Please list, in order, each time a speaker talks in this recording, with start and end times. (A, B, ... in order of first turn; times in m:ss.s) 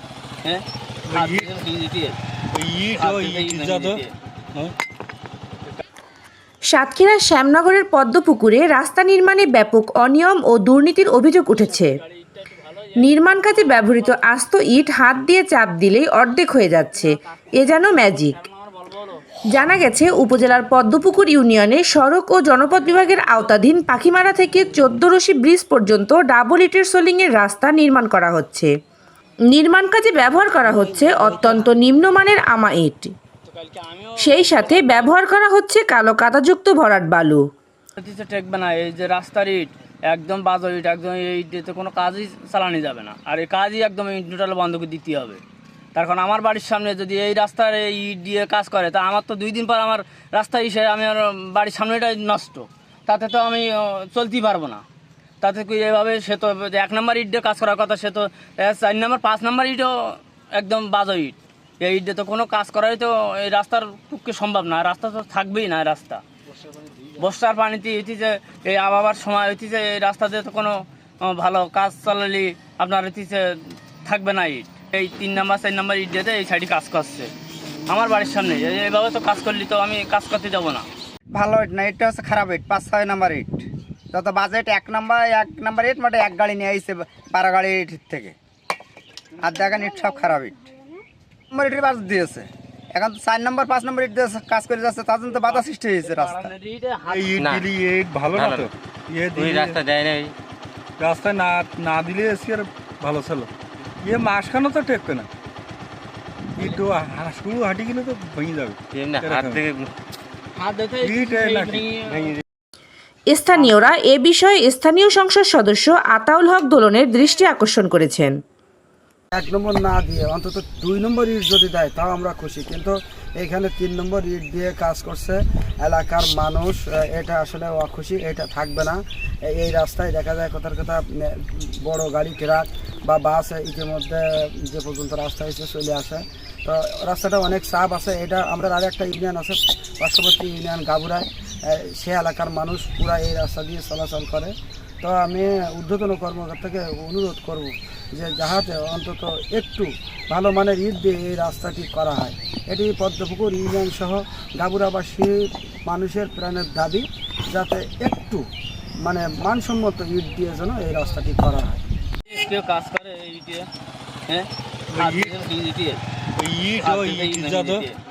0:00.4-0:02.2 A
0:01.1-0:01.5 B
0:02.5-0:04.0 B
0:03.0-0:04.1 A
0:06.7-0:12.0 C
0:11.5-0:14.3 A
0:13.0-0:18.4 C
0:16.9-0:19.2 A
0:19.6-0:28.7 C
0:29.5-0:33.1 C
0:30.6-0:31.7 A
0:33.4-0:35.2 A
0:34.2-0:37.4 C
0:38.0-0:45.4 A
0:46.0-0:54.8 A
0:55.4-1:06.2 A
1:07.2-1:17.3 A
1:17.9-1:20.9 A
1:21.3-1:28.4 D
1:29.4-1:31.0 D
1:31.5-1:36.5 D
1:35.3-1:37.3 A
1:37.1-1:39.8 B
1:37.4-1:37.7 E
1:38.3-1:38.7 E
1:39.3-1:40.3 E
1:41.0-1:43.5 B
1:44.0-1:45.3 B
1:46.6-1:49.6 B
1:48.9-1:49.9 E
1:50.6-1:52.3 A
1:51.0-1:52.4 B
1:53.3-1:58.4 C
1:53.5-1:53.9 A
1:59.3-2:38.4 F
2:39.0-2:41.8 F
2:42.2-2:43.7 A
2:44.3-2:46.0 A
2:44.9-2:45.3 B
2:46.4-2:47.8 B
2:46.8-2:48.0 A